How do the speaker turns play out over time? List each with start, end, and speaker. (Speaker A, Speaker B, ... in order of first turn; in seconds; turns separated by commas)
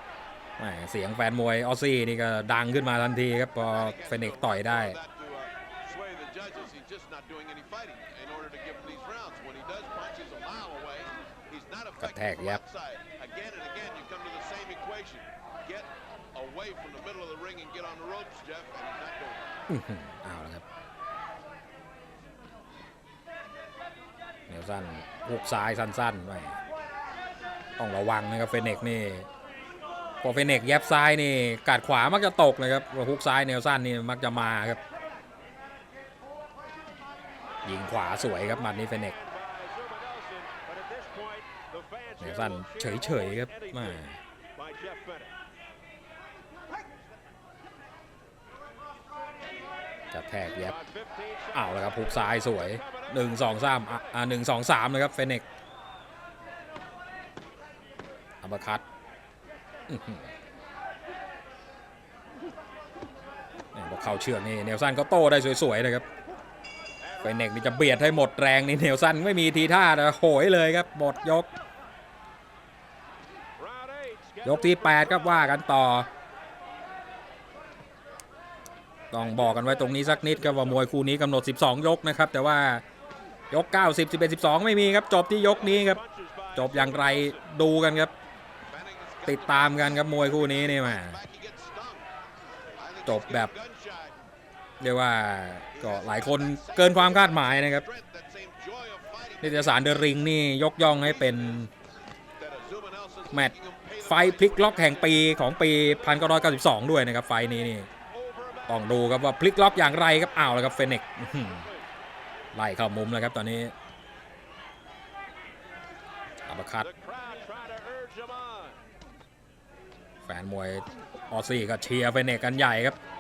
Speaker A: 0.6-5.0, Speaker B: 3.7-19.5, Speaker A: 12.0-12.6, Speaker A: 19.7-20.6, Speaker A: 24.5-26.6, Speaker A: 27.8-29.3, Speaker A: 30.2-34.8, Speaker A: 37.6-39.1, Speaker C: 38.5-44.0, Speaker A: 42.2-44.2, Speaker C: 44.5-45.3, Speaker A: 50.1-50.8, Speaker C: 50.6-53.1, Speaker A: 51.5-55.5, Speaker A: 58.4-58.8, Speaker A: 59.9-60.3, Speaker A: 63.7-66.1, Speaker C: 67.0-67.6, Speaker A: 67.2-71.5, Speaker C: 73.6-75.6, Speaker A: 74.4-76.1, Speaker A: 79.1-82.8, Speaker A: 83.5-86.0, Speaker C: 85.5-87.5, Speaker A: 86.5-88.1, Speaker B: 88.7-92.1, Speaker A: 89.3-91.2, Speaker B: 92.8-94.2, Speaker A: 93.0-93.5, Speaker A: 94.8-97.9, Speaker B: 95.7-100.0, Speaker A: 99.4-101.7, Speaker B: 100.9-101.7, Speaker B: 102.4-105.3, Speaker A: 103.3-107.9, Speaker C: 108.1-109.0, Speaker A: 108.7-111.7, Speaker C: 111.4-111.8, Speaker A: 112.5-113.7, Speaker A: 116.5-116.9, Speaker C: 116.8-118.8, Speaker A: 120.2-123.0